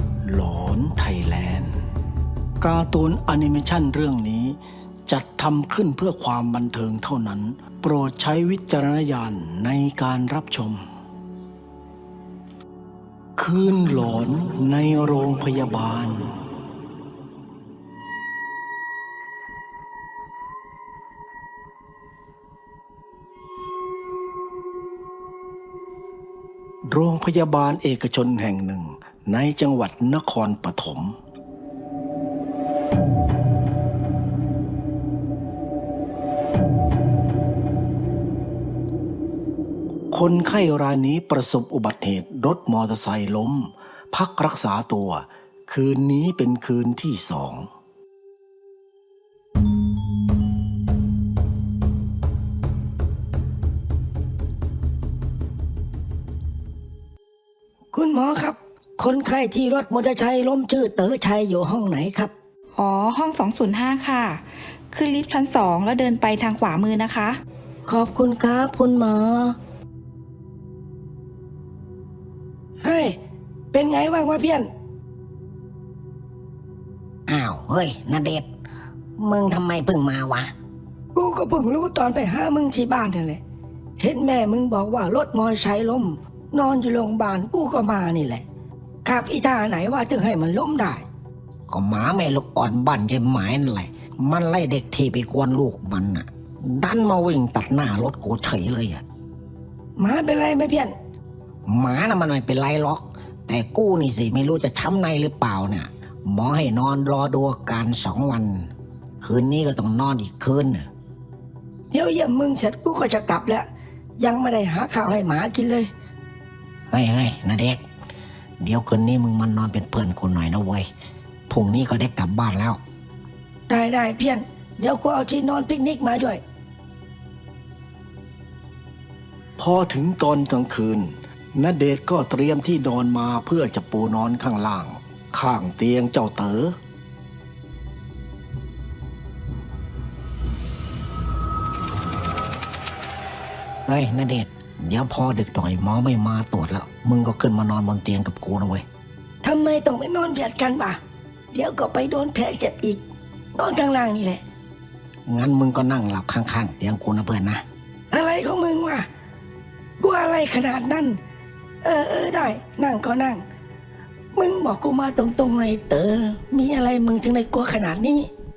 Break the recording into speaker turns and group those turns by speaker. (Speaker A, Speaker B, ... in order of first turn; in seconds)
Speaker A: 0.2-1.8, 2.6-10.8, 13.4-16.3, 26.9-31.2, 40.1-47.7, 129.6-136.8
Speaker B: 57.9-62.3, 67.9-68.9, 72.8-73.2, 73.7-74.7, 81.2-83.4, 84.0-88.5, 89.0-91.1, 100.0-100.9, 111.9-113.7, 114.2-115.9, 123.7-126.4, 149.4-151.0, 151.5-153.0, 153.6-154.4, 158.1-159.1, 160.0-161.2, 161.8-163.4, 164.3-168.3
Speaker C: 62.8-67.4
Speaker D: 68.9-69.5, 77.3-78.5, 79.2-80.5, 91.7-99.0, 101.7-110.9, 116.9-117.8, 118.6-120.9, 121.5-122.8, 143.9-148.8, 155.3-157.6